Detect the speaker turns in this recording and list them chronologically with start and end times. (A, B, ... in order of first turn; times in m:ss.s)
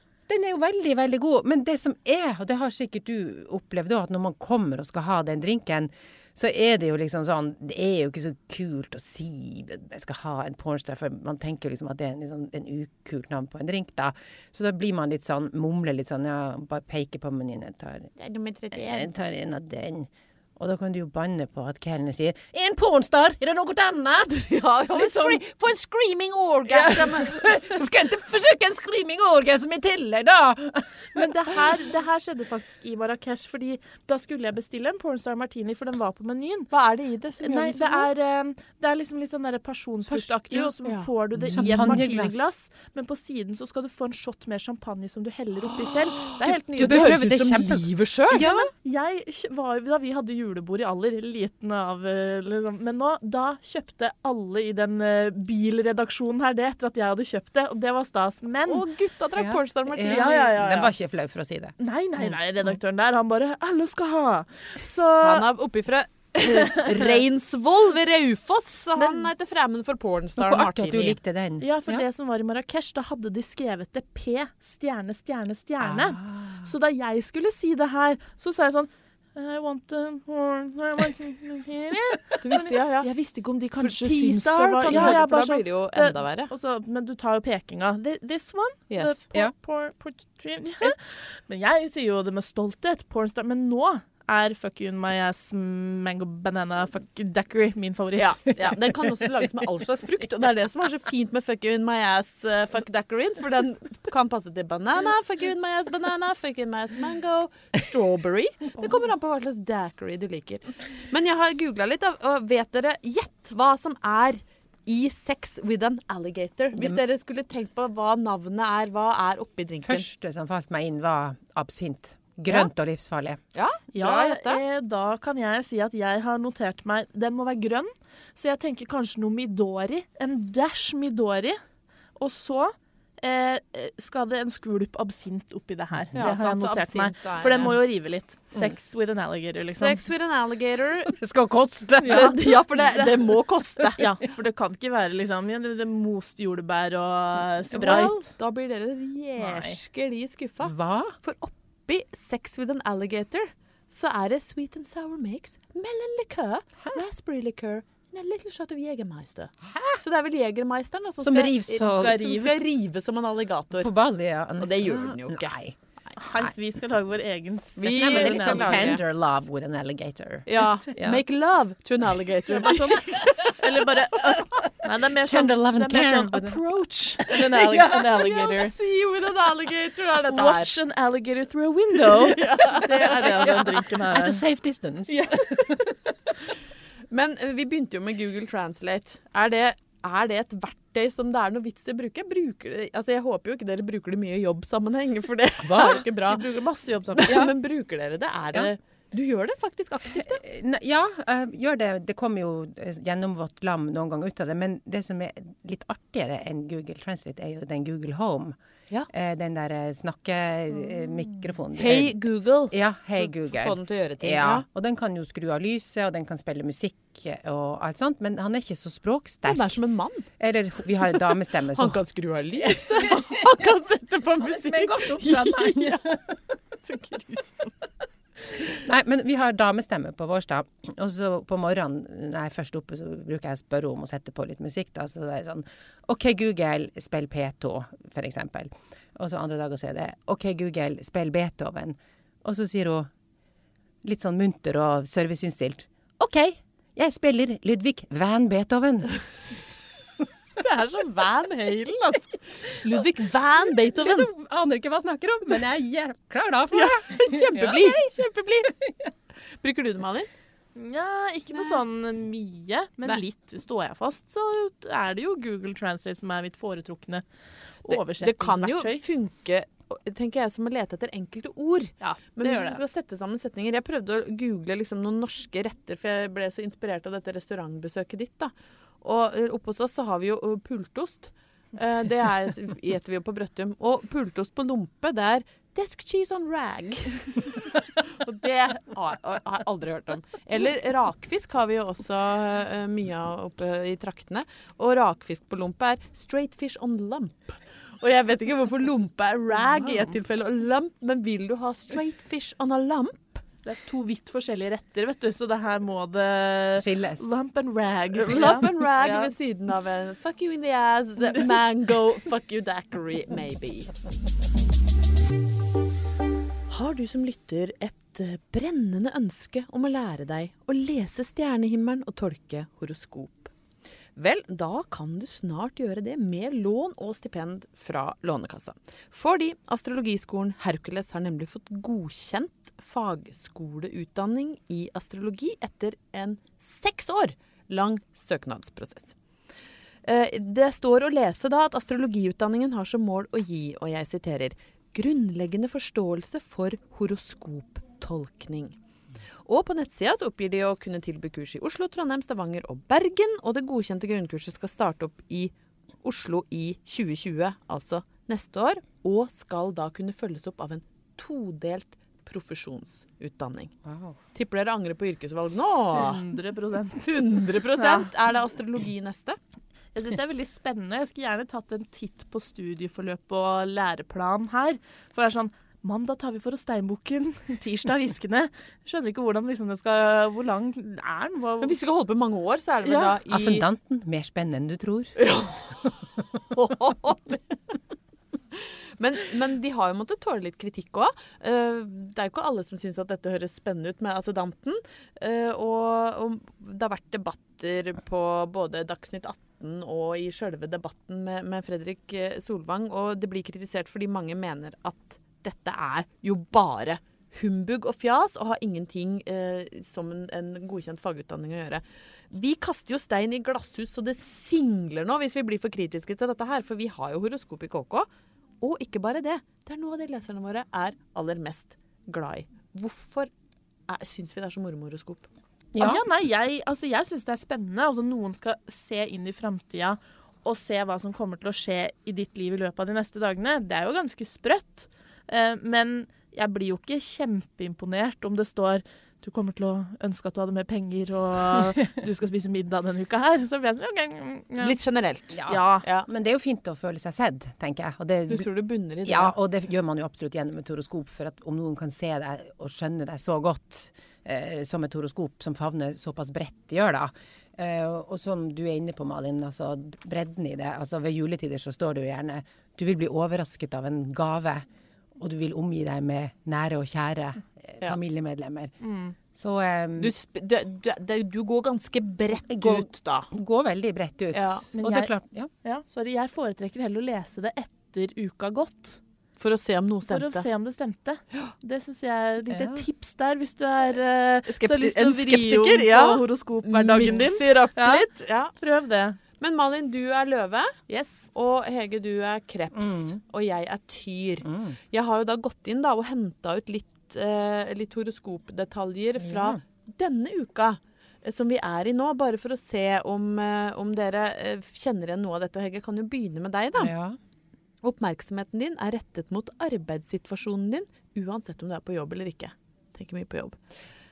0:00.3-0:18.1 A
0:18.2-0:19.1 B
0:18.7-0:25.4 A
0:24.3-0:27.5 B
0:26.7-0:31.7 A
0:31.1-0:36.7 C
0:36.7-0:38.1 B
0:37.4-0:47.1 C
0:40.1-0:40.7 A
0:40.8-0:42.1 B
0:41.4-0:42.4 A
0:45.8-0:48.5 B
0:46.5-0:48.7 A
0:48.3-0:58.9 C
0:58.7-1:00.6 B
0:59.4-1:02.4 A
1:00.0-1:00.9 C
1:01.8-1:05.4 C
1:05.2-1:11.2 B
1:06.5-1:07.2 C
1:09.0-1:09.3 C
1:10.4-1:12.0 A
1:11.6-1:38.6 C
1:15.8-1:16.7 A
1:22.4-1:23.1 B
1:23.8-1:26.5 B
1:24.9-1:25.2 A
1:28.9-1:29.2 B
1:38.2-2:00.1 B
1:59.8-2:03.4 A
2:03.5-2:04.6 B
2:03.9-2:11.6 C
2:12.2-2:20.0 C
2:16.1-2:17.7 B
2:19.7-2:21.2 B
2:21.1-2:22.4 A
2:22.0-2:23.2 C
2:22.0-2:24.0 B
2:24.0-2:28.3 C
2:27.7-2:43.9 B
2:29.4-2:29.7 C
2:30.6-2:31.2 A
2:39.6-2:40.0 A
2:41.2-2:42.2 A
2:42.2-2:42.4 C
2:43.8-2:45.8 A
2:44.6-2:45.6 B
2:46.2-2:48.8 C
2:47.8-2:49.0 B
2:47.9-2:51.2 A
2:50.5-2:54.4 B
2:52.5-2:58.7 C
2:54.3-2:56.6 A
2:57.2-2:58.1 A
2:57.7-3:00.7 B
3:00.3-3:04.4 C
3:02.0-3:03.8 B
3:03.2-3:06.0 A
3:07.1-3:16.4 B
3:15.7-3:16.0 A
3:15.7-3:17.5 C
3:17.1-3:20.4 B
3:20.1-3:28.6 A
3:29.1-3:32.1 A
3:31.7-3:34.6 B
3:32.7-3:39.8 A
3:39.5-3:40.3 B
3:40.4-3:42.0 A
3:41.1-3:46.2 B
3:42.6-3:43.4 A
3:44.4-3:46.5 A
3:46.8-3:47.7 B
3:48.6-4:03.1 A
4:04.0-4:09.1 A
4:10.6-4:14.3 B
4:13.9-4:18.0 A
4:16.7-4:18.7 B
4:18.8-4:19.1 A
4:19.6-4:20.3 B
4:20.7-4:27.2 C
4:21.5-4:21.8 B
4:27.8-4:29.0 C
4:27.8-5:03.4 B
4:32.0-4:32.8 C
4:59.8-5:00.1 C
5:03.6-5:09.3 C
5:06.8-5:07.4 A
5:08.1-5:13.9 B
5:16.7-5:23.5 B
5:24.2-5:39.2 B
5:40.0-5:48.8 B
5:49.4-6:03.7 B
6:03.8-6:04.2 A
6:04.3-6:06.2 B
6:05.9-6:08.1 C
6:07.0-6:09.4 B
6:09.9-6:21.8 C
6:21.6-6:23.6 B
6:22.8-6:23.2 C
6:23.3-6:25.2 A
6:25.2-6:26.0 B
6:26.5-6:27.6 B
6:28.5-6:58.1 B
6:58.6-7:03.3 B
7:03.9-7:05.3 B
7:05.7-7:06.0 A
7:05.8-7:24.8 C
7:24.6-7:26.1 B
7:25.3-7:28.5 A
7:25.4-7:25.8 C
7:28.3-7:29.3 B
7:29.0-7:44.6 A
7:45.2-7:48.7 A
7:48.8-7:49.2 C
7:49.3-7:50.1 A
7:50.0-7:53.3 B
7:52.5-7:55.5 A
7:54.3-7:54.7 B
7:54.7-7:55.1 C
7:55.6-7:59.0 C
7:59.4-8:00.4 B
8:00.0-8:09.2 C
8:02.5-8:02.8 A
8:04.5-8:08.5 B
8:09.4-8:10.7 B
8:10.9-8:11.3 C
8:11.3-8:26.9 B
8:12.7-8:13.2 A
8:14.4-8:14.8 A
8:19.2-8:19.6 A
8:26.8-8:27.2 A
8:27.8-8:33.6 B